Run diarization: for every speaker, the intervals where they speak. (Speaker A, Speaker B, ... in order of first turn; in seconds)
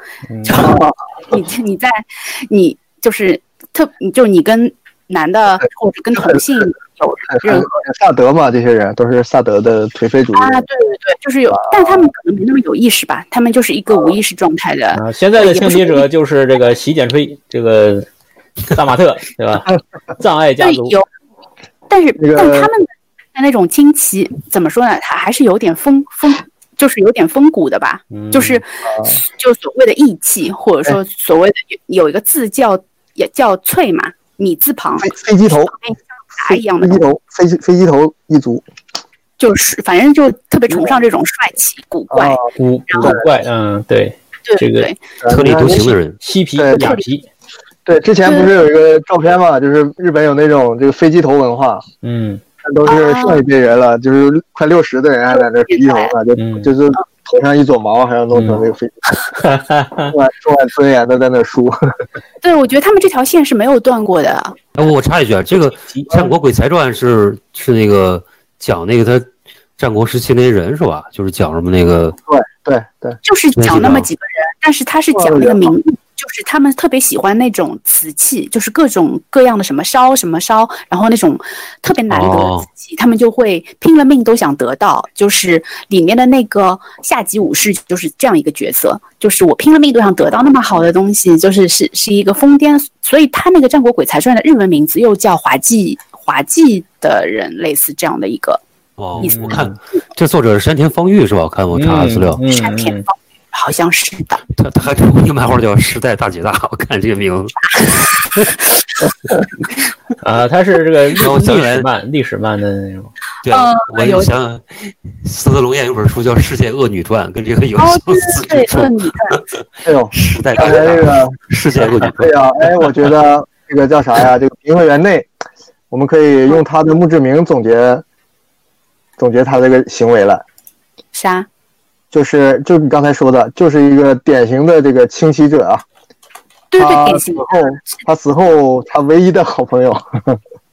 Speaker A: 0.4-1.0, 6.2-6.4, 7.3-10.7, 11.5-12.1, 22.2-22.7, 28.9-29.2, 35.0-35.7, 36.4-38.6, 40.7-41.0, 42.1-42.5, 45.2-45.9, 46.6-47.0, 47.9-51.9, 52.6-59.0, 60.1-61.8, 72.3-73.2, 75.1-75.7, 119.8-121.4, 122.0-125.3, 125.9-128.0, 129.2-130.4, 132.1-135.8, 136.8-140.4
Speaker B: 0.5-7.8, 10.3-16.1, 20.6-21.1, 21.9-37.0, 39.4-43.3, 44.5-45.1, 46.8-47.0, 48.2-48.5, 52.9-53.5, 55.3-56.1, 62.4-64.6, 73.2-98.6, 99.2-99.5, 102.5-104.4, 107.7-108.3, 113.5-114.3, 117.8-119.4, 131.1-131.5, 136.7-137.9
Speaker C: 14.9-18.1, 18.7-21.0, 28.1-28.6, 42.6-44.9, 46.2-47.3, 52.0-52.4, 56.4-56.8, 58.3-58.7, 59.3-60.1, 65.9-66.2, 99.2-99.8, 101.7-103.1, 110.2-113.1
Speaker D: 45.3-46.2, 64.8-69.3, 69.8-72.2, 73.6-74.1, 82.1-82.7, 99.0-102.4, 104.6-107.6, 111.2-111.9, 113.5-119.4, 120.1-123.0